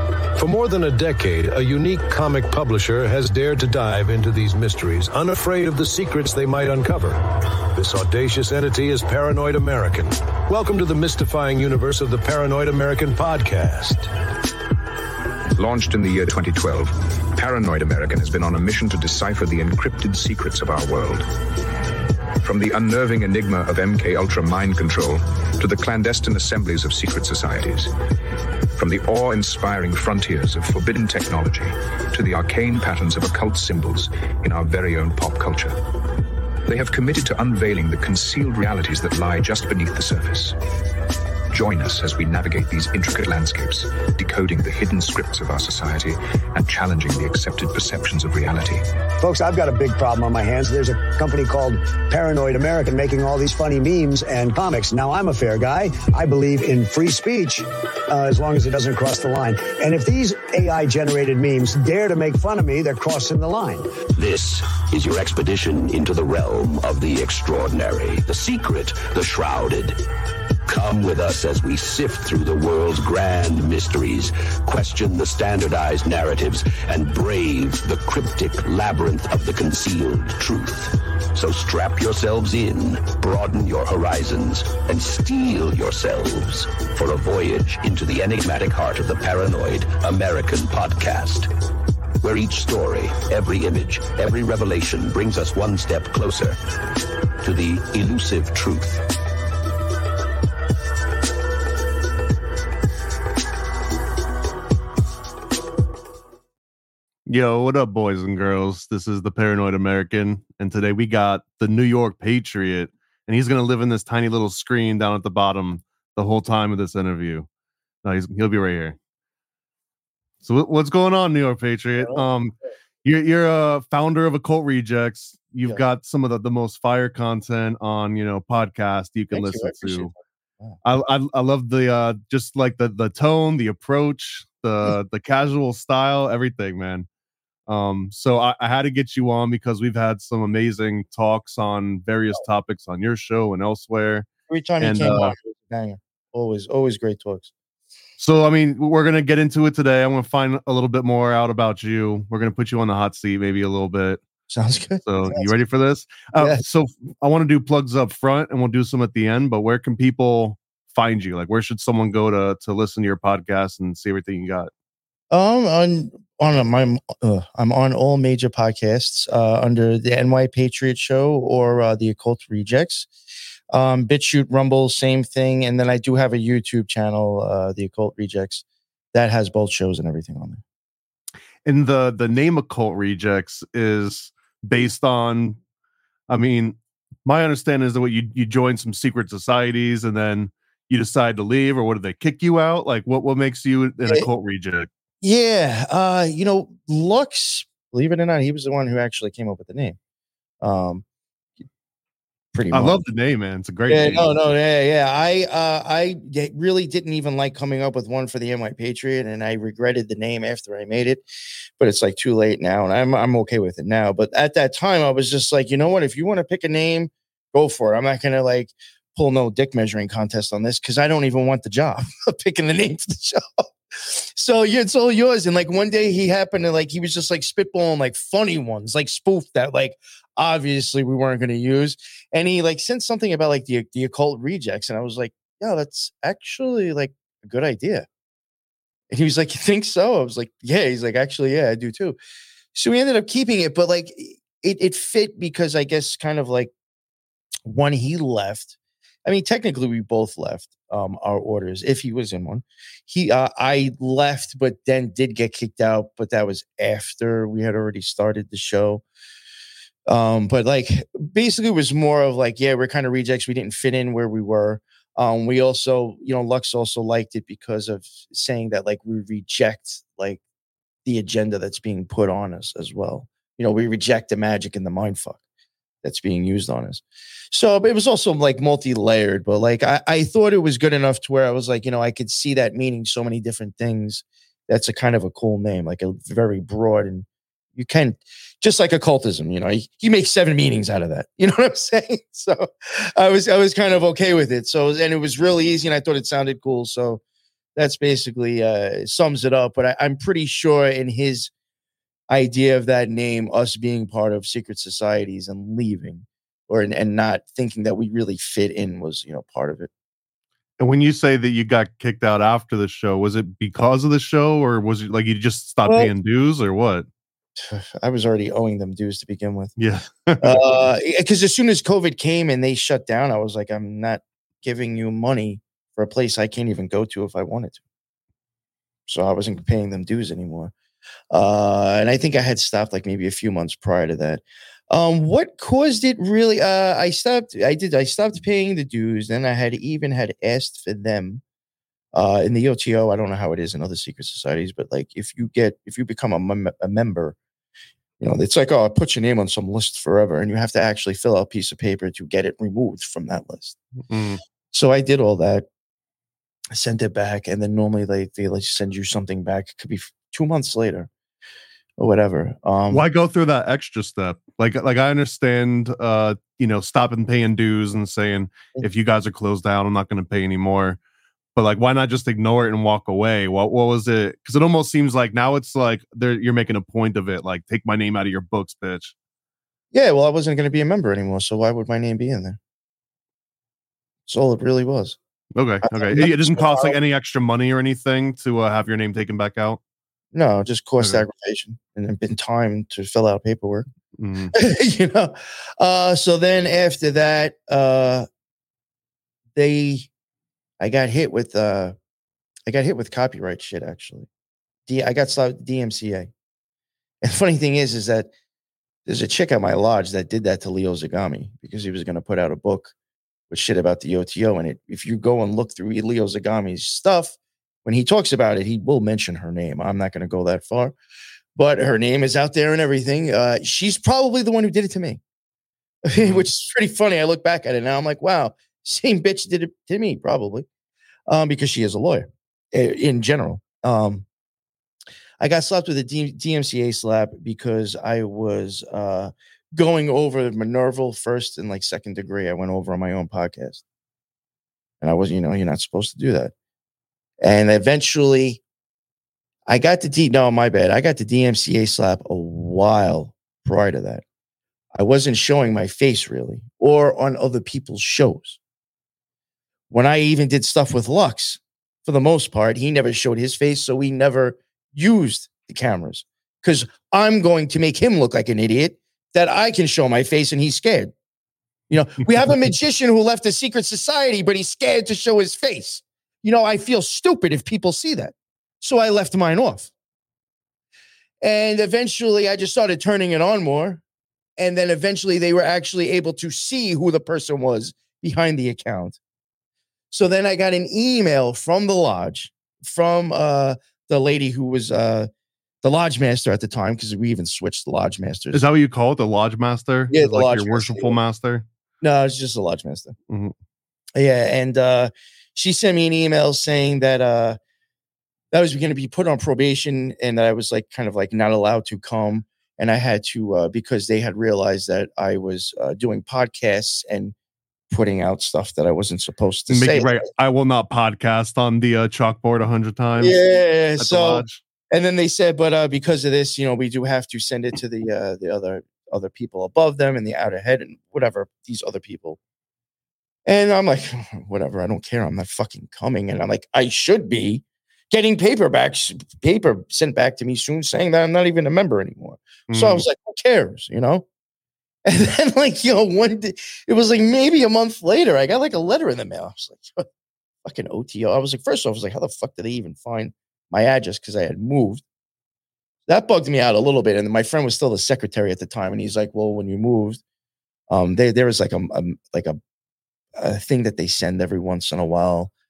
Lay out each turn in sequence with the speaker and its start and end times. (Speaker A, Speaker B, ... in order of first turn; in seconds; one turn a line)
Speaker A: 0.3-14.1
Speaker B: 15.5-21.3
Speaker B: 22.4-27.9
Speaker B: 28.7-35.8
Speaker B: 36.6-40.6
Speaker B: 41.5-48.9
Speaker C: 49.2-64.0
Speaker D: 64.1-70.0
Speaker D: 70.7-91.5
Speaker D: 92.2-96.6
Speaker D: 97.4-99.1
Speaker E: 107.2-117.5
Speaker E: 118.0-119.0
Speaker E: 120.4-130.1
Speaker F: 122.0-122.2
Speaker F: 129.3-130.8
Speaker E: 130.8-137.1
Speaker E: 137.7-144.3
Speaker F: 144.5-147.5
Speaker E: 144.8-145.3
Speaker E: 148.2-154.2
Speaker F: 154.5-155.5
Speaker E: 155.0-164.7
Speaker F: 156.3-156.6
Speaker F: 165.3-173.1
Speaker F: 173.7-180.6
Speaker E: 181.6-185.6
Speaker E: 186.3-194.9
Speaker F: 195.2-200.0
Speaker F: 200.6-201.0
Speaker F: 202.5-203.0
Speaker E: 202.7-204.3
Speaker F: 203.9-211.2
Speaker F: 211.8-238.1
Speaker F: 239.1-242.2
Speaker F: 242.7-246.7
Speaker F: 247.7-248.7
Speaker F: 249.2-259.0
Speaker F: 260.1-270.4
Speaker F: 271.1-275.4
Speaker F: 276.0-297.2
Speaker F: 297.8-301.5
Speaker F: 302.3-309.9
Speaker E: 310.8-317.1
Speaker F: 315.8-316.1
Speaker F: 317.6-319.7
Speaker E: 319.8-320.8
Speaker F: 320.4-327.8
Speaker F: 329.1-330.7
Speaker F: 331.3-341.4
Speaker F: 342.1-347.4
Speaker F: 348.2-353.8
Speaker E: 354.1-354.4
Speaker F: 354.7-355.6
Speaker F: 356.7-361.1
Speaker F: 362.0-363.0
Speaker E: 362.9-371.0
Speaker E: 371.6-379.1
Speaker F: 379.9-382.6
Speaker F: 384.3-385.2
Speaker E: 385.5-389.8
Speaker F: 385.8-387.0
Speaker F: 390.3-393.9
Speaker E: 394.2-394.5
Speaker F: 394.5-398.3
Speaker F: 399.6-400.1
Speaker F: 400.8-401.9
Speaker F: 402.7-404.3
Speaker F: 404.9-406.3
Speaker F: 407.2-408.3
Speaker F: 409.1-412.9
Speaker F: 413.5-420.9
Speaker F: 421.6-425.2
Speaker F: 426.0-430.6
Speaker E: 426.2-426.5
Speaker F: 431.3-434.2
Speaker F: 435.4-443.8
Speaker F: 445.0-446.5
Speaker F: 447.4-448.6
Speaker F: 449.7-454.2
Speaker F: 454.9-458.6
Speaker F: 459.9-471.1
Speaker F: 471.9-479.9
Speaker F: 481.4-484.0
Speaker F: 484.6-489.2
Speaker F: 490.1-495.3
Speaker F: 495.8-498.6
Speaker E: 498.5-501.6
Speaker F: 500.1-501.1
Speaker F: 502.0-503.1
Speaker F: 504.2-507.6
Speaker F: 508.5-517.3
Speaker F: 517.9-520.2
Speaker E: 519.7-523.4
Speaker F: 523.2-532.4
Speaker E: 524.0-524.6
Speaker F: 533.5-544.2
Speaker E: 542.7-543.0
Speaker F: 545.0-550.0
Speaker F: 550.6-555.0
Speaker F: 556.1-560.2
Speaker F: 560.9-562.6
Speaker F: 563.4-565.5